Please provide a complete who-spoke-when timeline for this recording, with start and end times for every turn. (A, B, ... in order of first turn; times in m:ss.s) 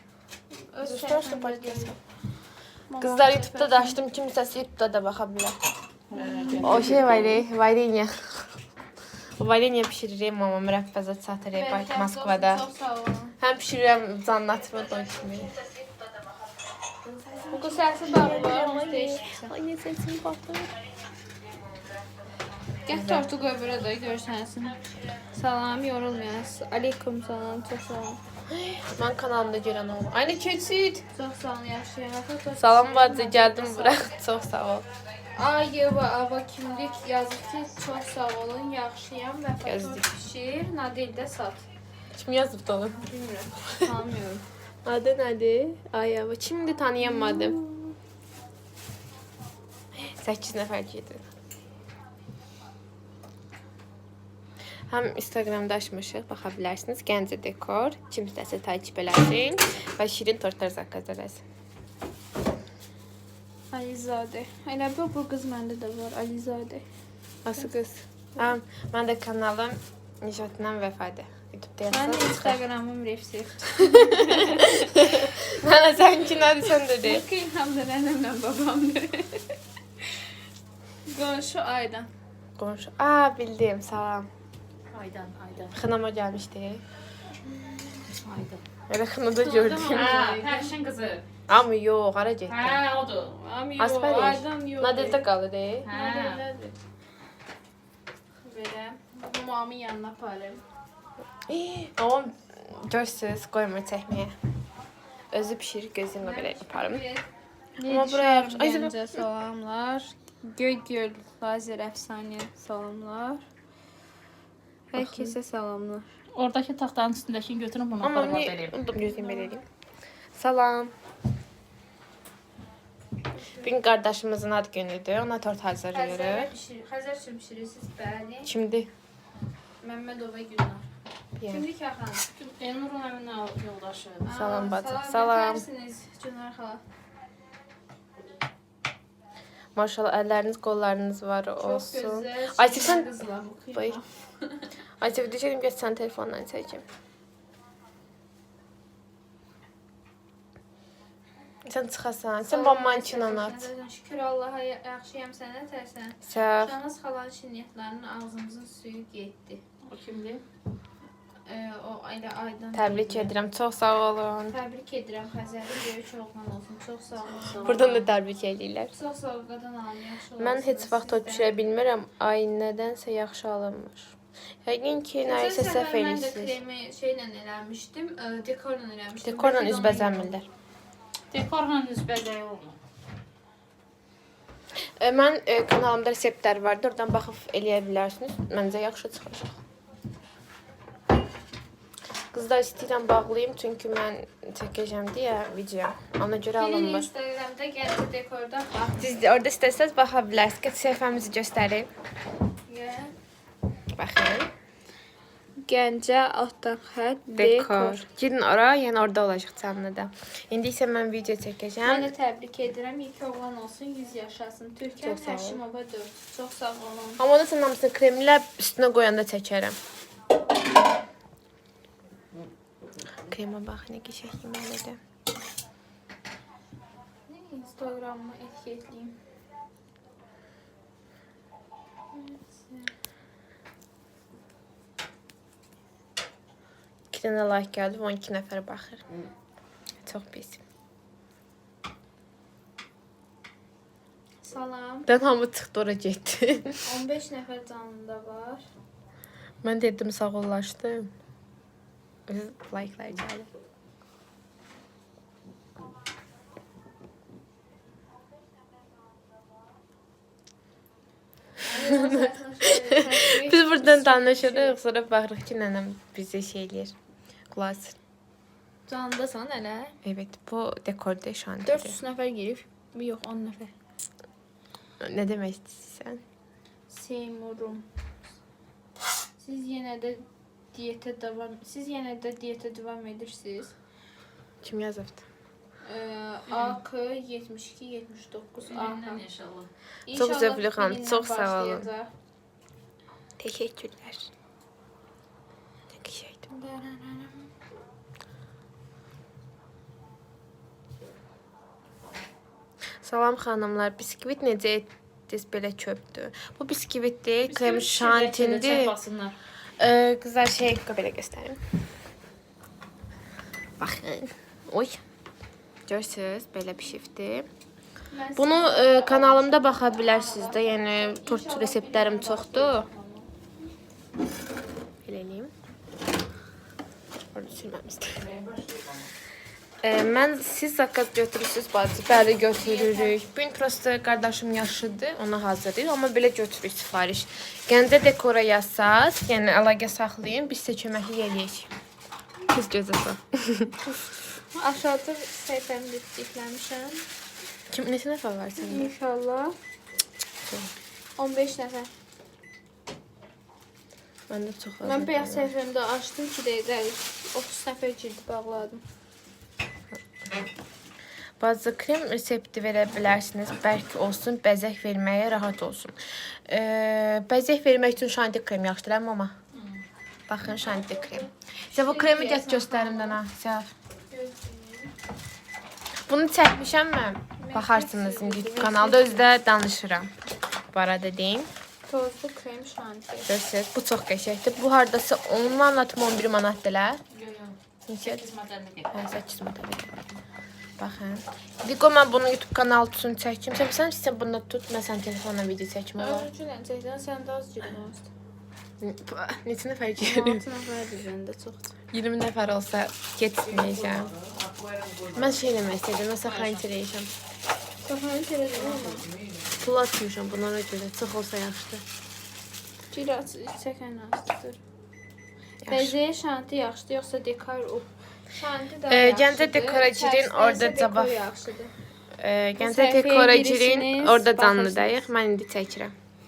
0:00.7-0:02.0 A
0:00.8-0:02.0 B
0:02.9-0:04.0 A
0:03.0-0:05.6 B
0:06.1-0:07.4 C
0:06.2-0:06.9 A
0:06.6-0:08.4 B
0:09.4-0:12.6 B
0:11.5-0:13.4 A
0:13.4-0:15.6 B
0:17.0-0:20.7 B
0:17.5-0:19.5 A
0:22.8-0:28.2 A
0:22.9-0:23.3 B
0:28.5-0:31.0 B
0:31.1-0:34.0 A
0:32.6-0:34.9 B
0:35.3-0:41.6 A
0:39.6-0:40.0 B
0:42.1-0:43.1 B
0:43.1-0:44.4 A
0:44.8-0:47.6 B
0:47.0-0:47.9 A
0:49.9-0:51.2 B
0:54.9-1:01.4 B
1:03.7-1:06.8 A
1:07.4-1:12.6 B
1:11.9-1:15.0 A
1:13.8-1:17.2 B
1:17.0-1:19.5 A
1:21.1-1:22.1 A
1:22.6-1:24.3 B
1:24.9-1:25.7 C
1:25.7-1:26.8 B
1:27.5-1:28.0 A
1:28.1-1:28.6 C
1:28.9-1:30.2 B
1:29.4-1:30.7 A
1:29.9-1:31.2 C
1:31.5-1:32.8 B
1:32.5-1:33.4 C
1:33.3-1:35.2 A
1:33.8-1:35.9 B
1:35.8-1:36.5 C
1:35.9-1:36.8 A
1:38.4-1:40.6 A
1:41.5-1:44.3 B
1:45.3-1:47.0 B
1:46.2-1:47.2 A
1:47.8-1:53.4 A
1:47.8-1:49.2 B
1:54.9-1:56.1 A
1:54.9-1:55.4 B
1:56.3-1:58.8 C
1:58.0-1:59.6 B
1:58.9-1:59.5 A
2:00.3-2:00.9 B
2:03.3-2:03.7 A
2:03.6-2:06.5 B
2:05.9-2:08.5 A
2:08.4-2:08.9 B
2:09.8-2:10.8 A
2:11.4-2:11.6 B
2:11.5-2:12.3 A
2:12.3-2:14.3 C
2:14.2-2:16.8 A
2:14.3-2:15.7 B
2:19.7-2:23.1 B
2:21.6-2:24.6 A
2:23.7-2:24.0 B
2:25.0-2:26.8 B
2:31.7-2:33.7 B
2:32.4-2:39.6 A
2:36.2-2:36.7 B
2:39.8-2:40.4 C
2:41.4-2:43.4 A
2:42.7-2:44.6 B
2:44.5-2:48.0 A
2:47.4-2:47.9 C
2:47.6-2:48.9 B
2:48.9-2:51.5 A
2:50.4-2:54.1 B
2:54.6-2:56.6 B
2:55.2-3:00.4 A
2:59.2-3:00.4 B
3:01.3-3:02.8 C
3:05.0-3:09.6 B
3:12.3-3:17.1 B
3:16.6-3:19.1 A
3:19.0-3:21.9 B
3:22.7-3:23.1 A
3:24.0-3:24.5 B
3:25.6-3:28.0 A
3:27.3-3:32.1 B
3:31.8-3:37.2 A
3:35.0-3:35.6 B
3:37.2-3:39.8 B
3:43.2-3:45.0 B
3:47.3-3:49.2 A
3:52.1-3:52.9 A
3:57.1-3:59.1 B
4:00.0-4:00.6 B
4:04.4-4:05.1 A
4:05.1-4:06.8 B
4:06.8-4:08.6 A
4:09.6-4:11.1 B
4:12.3-4:13.5 B
4:21.6-4:24.8 A
4:21.7-4:26.9 B
4:27.5-4:28.0 B
4:28.9-4:29.9 A
4:30.0-4:32.0 B
4:31.6-4:33.7 A
4:35.0-4:36.2 B
4:36.9-4:37.8 A
4:39.4-4:43.7 A
4:44.6-4:45.2 B
4:45.8-4:49.2 A
4:46.5-4:46.8 C
4:48.6-4:49.7 C
4:50.0-4:52.1 A
4:50.1-4:51.9 B
4:53.4-4:54.3 B
4:55.9-4:56.5 B
4:56.5-4:57.5 A
5:03.0-5:09.0 B
5:07.4-5:09.3 C
5:09.8-5:11.6 B
5:13.8-5:15.0 B
5:15.9-5:17.5 B
5:18.1-5:23.3 A
5:18.4-5:22.9 B
5:25.0-5:25.5 B
5:27.3-5:28.2 B
5:28.2-5:29.1 C
5:29.8-5:41.7 B
5:32.3-5:33.2 A
5:42.5-5:43.8 B
5:44.5-5:47.0 A
5:47.7-5:48.9 B
5:48.6-5:49.5 A
5:50.4-5:50.7 B
5:51.2-5:51.9 A
5:54.3-5:55.5 B
5:54.8-5:58.8 A
6:01.4-6:09.3 B
6:09.5-6:09.8 C
6:10.3-6:13.7 B
6:11.7-6:13.2 A
6:14.1-6:14.9 A
6:16.1-6:20.1 B
6:17.4-6:19.2 A
6:20.7-6:21.5 B
6:21.9-6:23.3 A
6:23.3-6:27.0 B
6:27.1-6:29.0 C
6:27.9-6:28.2 B
6:28.9-6:29.9 B
6:30.8-6:36.3 B
6:36.0-6:38.1 A
6:38.8-6:40.4 B
6:40.0-6:41.7 A
6:41.9-6:44.1 B
6:43.5-6:45.3 C
6:45.1-6:47.1 B
6:46.2-6:46.6 C
6:47.8-6:49.1 A
6:48.7-6:49.5 C
6:49.6-6:51.8 B
6:52.9-6:54.6 A
6:55.6-6:56.0 B
6:55.7-7:01.7 A
6:58.9-7:01.2 B
7:02.2-7:05.9 B
7:02.6-7:05.1 A